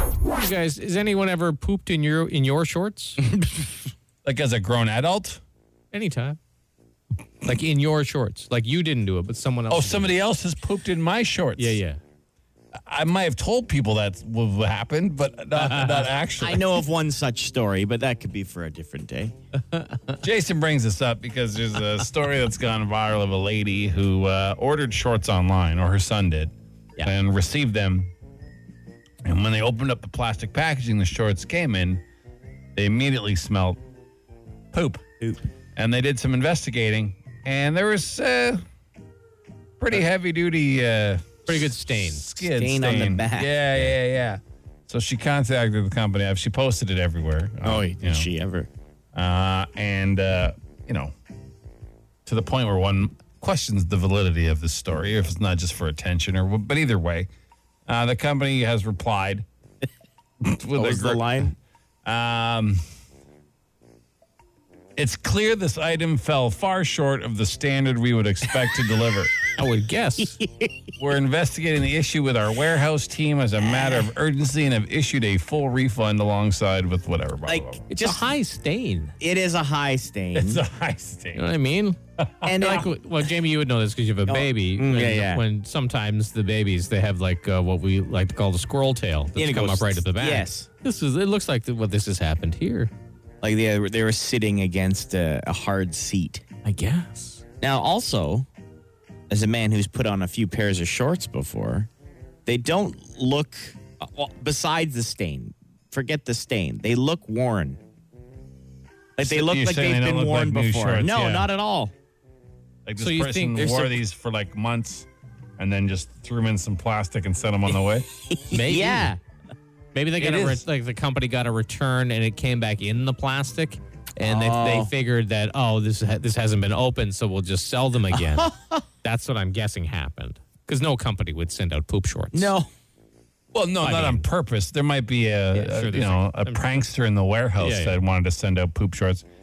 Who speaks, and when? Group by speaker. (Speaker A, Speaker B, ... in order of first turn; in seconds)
Speaker A: 0.3-3.2, 5.9-6.4, 7.4-10.2, 11.6-12.0, 15.6-16.1, 19.6-20.2, 41.5-42.2, 69.6-70.3, 77.9-79.1, 81.3-82.0, 82.5-92.9, 96.6-97.4, 113.0-114.0, 118.5-119.1, 119.9-128.5, 129.0-132.5, 133.8-134.3, 135.5-136.6, 137.6-138.0
Speaker B: 4.2-5.4, 9.7-11.8, 12.8-16.7, 20.2-28.1, 29.2-32.0, 32.7-33.8, 34.7-35.0, 35.8-38.6, 39.8-48.3, 49.1-51.1, 52.2-57.3, 57.9-59.5, 60.4-62.8, 65.0-69.3, 71.0-77.8, 80.3-81.5, 82.2-82.5, 109.2-111.5, 112.8-118.1, 120.2-120.6, 133.5-139.2
Speaker C: 16.4-19.3, 42.4-43.5, 47.6-48.7, 60.7-61.5, 70.2-70.7, 73.6-74.1, 77.5-78.2, 79.2-80.6, 82.4-82.9, 84.3-85.4, 89.3-90.7, 93.4-96.4, 97.6-98.5, 99.3-101.9, 102.5-107.8, 109.2-111.9, 118.3-119.2, 124.2-124.9, 128.2-128.8, 132.3-132.7